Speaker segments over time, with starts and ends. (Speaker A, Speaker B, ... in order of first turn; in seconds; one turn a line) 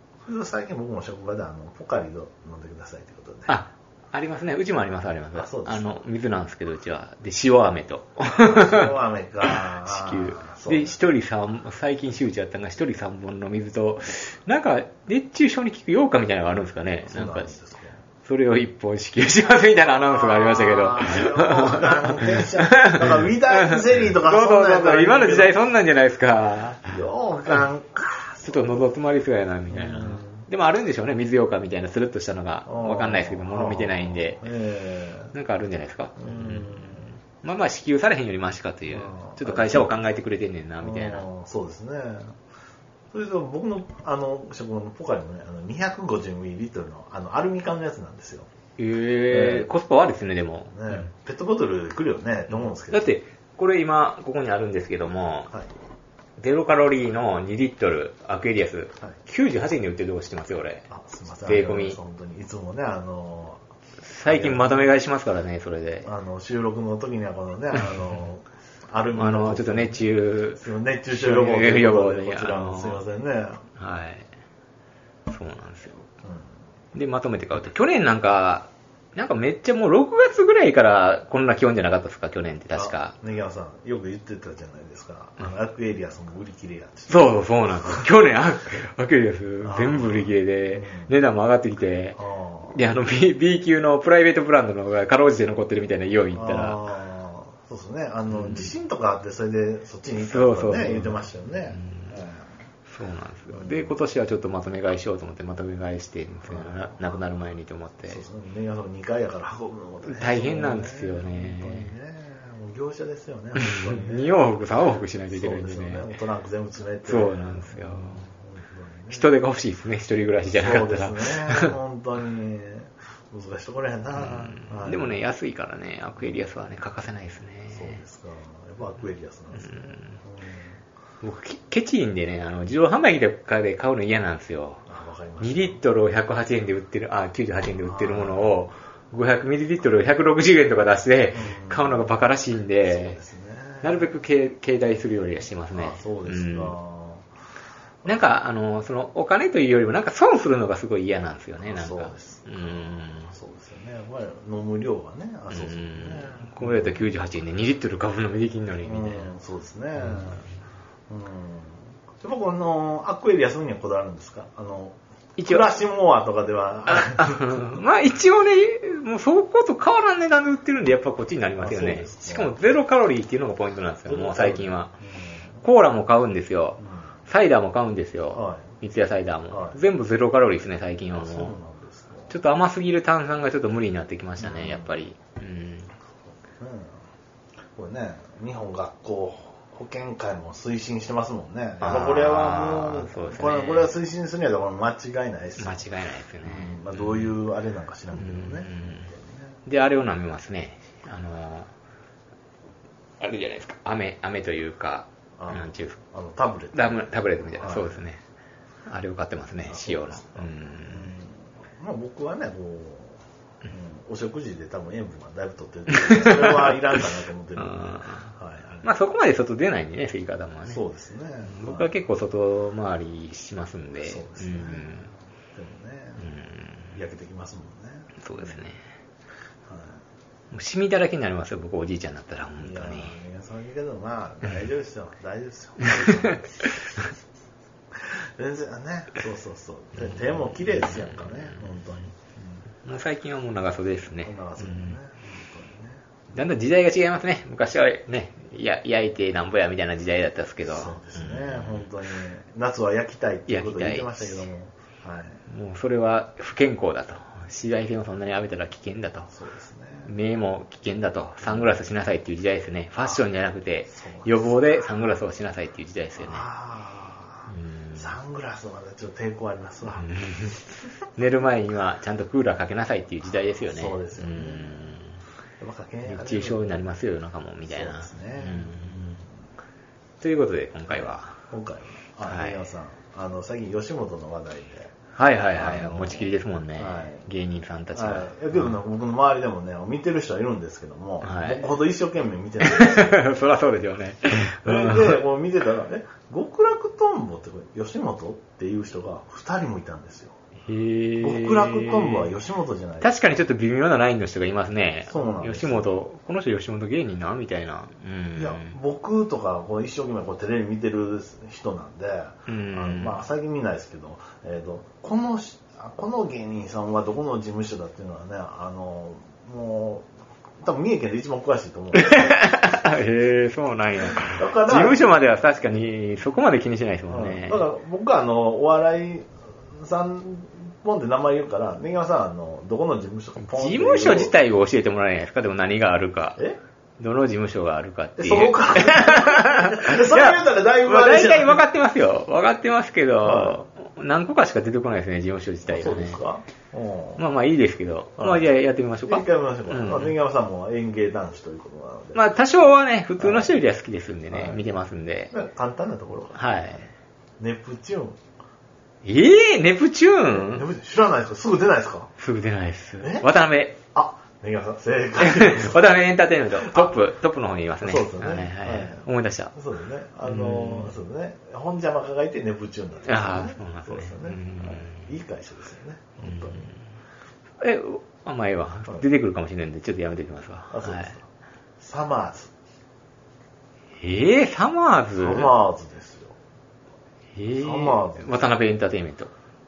Speaker A: 0.2-3.5
Speaker B: 3.5-17.5
Speaker A: 5.3-6.0
Speaker A: 8.3-10.9
Speaker A: 17.0-18.0
Speaker B: 18.2-26.9
Speaker A: 19.6-25.6
Speaker A: 26.9-28.8
Speaker B: 28.4-34.5
Speaker A: 29.7-30.4
Speaker A: 32.6-35.3
Speaker B: 35.3-41.3
Speaker A: 36.2-37.2
Speaker A: 38.9-40.0
Speaker A: 40.8-42.4
Speaker A: 43.1-48.5
Speaker B: 48.8-51.1
Speaker A: 49.3-49.7
Speaker A: 50.7-53.1
Speaker B: 52.5-55.5
Speaker B: 56.4-60.9
Speaker A: 60.9-63.6
Speaker B: 61.4-62.0
Speaker B: 64.0-66.1
Speaker A: 64.2-64.9
Speaker A: 66.0-73.6
Speaker B: 69.1-73.0
Speaker B: 73.8-74.3
Speaker B: 75.3-76.1
Speaker B: 76.9-83.1
Speaker A: 82.7-88.0
Speaker B: 87.1-92.2
Speaker A: 89.6-91.1
Speaker A: 92.2-92.8
Speaker B: 92.7-96.8
Speaker A: 96.3-102.5
Speaker B: 98.3-98.7
Speaker B: 100.2-102.2
Speaker B: 102.9-108.2
Speaker A: 103.5-104.0
Speaker A: 106.5-107.1
Speaker A: 108.0-114.4
Speaker B: 110.0-111.9
Speaker B: 113.6-116.1
Speaker A: 115.3-119.3
Speaker B: 117.0-118.3
Speaker B: 119.1-121.7
Speaker A: 120.5-125.1
Speaker B: 124.2-128.0
Speaker A: 127.7-130.7
Speaker B: 129.6-130.2
Speaker B: 131.2-134.8
Speaker A: 134.9-135.8
Speaker B: 135.4-143.2
Speaker A: 137.8-138.5
Speaker A: 141.3-142.1
Speaker A: 142.8-144.1
Speaker B: 143.8-146.8
Speaker A: 145.7-147.2
Speaker A: 148.0-148.3
Speaker B: 148.0-153.3
Speaker A: 151.6-157.0
Speaker B: 155.5-159.3
Speaker A: 158.8-160.4
Speaker B: 160.0-160.4
Speaker A: 161.1-167.8
Speaker B: 165.4-165.7
Speaker B: 166.9-174.9
Speaker A: 171.6-172.5
Speaker A: 174.1-175.3
Speaker B: 175.6-181.5
Speaker A: 178.3-178.7
Speaker A: 179.5-179.8
Speaker A: 181.1-182.3
Speaker B: 182.3-185.9
Speaker A: 184.4-185.0
Speaker A: 186.6-186.9
Speaker A: 187.7-195.8
Speaker B: 191.8-193.9
Speaker B: 195.6-197.3
Speaker A: 196.4-199.6
Speaker B: 198.1-199.1
Speaker B: 199.7-201.7
Speaker B: 203.2-206.0
Speaker A: 205.4-208.0
Speaker B: 206.7-208.2
Speaker B: 208.9-211.1
Speaker A: 209.6-218.9
Speaker B: 216.0-216.7
Speaker B: 217.6-218.3
Speaker B: 218.8-220.8
Speaker A: 220.7-221.9
Speaker B: 221.5-225.1
Speaker A: 224.0-225.0
Speaker A: 225.5-226.3
Speaker B: 226.2-227.0
Speaker A: 226.9-228.6
Speaker B: 228.2-228.8
Speaker A: 229.7-230.0
Speaker B: 230.5-233.1
Speaker A: 232.6-236.4
Speaker B: 235.8-236.9
Speaker A: 238.4-242.6
Speaker B: 240.0-241.7
Speaker B: 242.8-244.9
Speaker A: 244.2-246.0
Speaker B: 246.3-251.9
Speaker A: 250.7-255.4
Speaker B: 253.5-254.4
Speaker B: 255.5-259.3
Speaker A: 259.3-260.1
Speaker B: 260.1-266.4
Speaker A: 263.9-264.5
Speaker A: 266.2-270.1
Speaker B: 267.5-268.1
Speaker B: 269.9-275.2
Speaker A: 273.6-274.9
Speaker A: 275.6-276.8
Speaker B: 276.1-279.0
Speaker A: 277.7-279.2
Speaker B: 280.2-281.4
Speaker A: 280.9-284.9
Speaker B: 282.2-282.6
Speaker B: 285.1-288.8
Speaker A: 285.5-287.2
Speaker A: 287.9-293.2
Speaker B: 291.2-291.7
Speaker B: 292.6-295.2
Speaker A: 294.6-300.3
Speaker B: 300.7-302.3
Speaker A: 301.2-303.1
Speaker B: 303.0-308.7
Speaker A: 305.1-306.0
Speaker A: 308.3-320.1
Speaker B: 312.5-313.2
Speaker A: 320.6-322.9
Speaker B: 321.9-327.6
Speaker A: 324.2-325.0
Speaker A: 327.1-334.3
Speaker B: 333.4-336.4
Speaker B: 337.0-346.2
Speaker A: 338.2-341.6
Speaker A: 343.2-343.6
Speaker A: 345.7-347.2
Speaker B: 347.2-350.1
Speaker A: 348.2-348.4
Speaker A: 349.1-352.2
Speaker B: 352.1-355.3
Speaker A: 353.2-353.5
Speaker A: 354.3-354.6
Speaker A: 355.3-356.8
Speaker B: 356.3-356.9
Speaker A: 357.4-358.2
Speaker B: 359.0-360.7
Speaker A: 360.3-362.1
Speaker B: 362.2-363.8
Speaker A: 363.0-363.2
Speaker A: 363.9-365.9
Speaker B: 365.2-369.5
Speaker A: 366.6-367.0
Speaker A: 367.8-376.7
Speaker B: 370.2-370.9
Speaker B: 373.1-375.1
Speaker B: 376.2-376.8
Speaker B: 377.6-381.1
Speaker A: 380.7-381.2
Speaker A: 381.8-382.5
Speaker B: 384.0-385.5
Speaker A: 385.2-386.3
Speaker B: 387.3-389.3
Speaker A: 387.5-388.5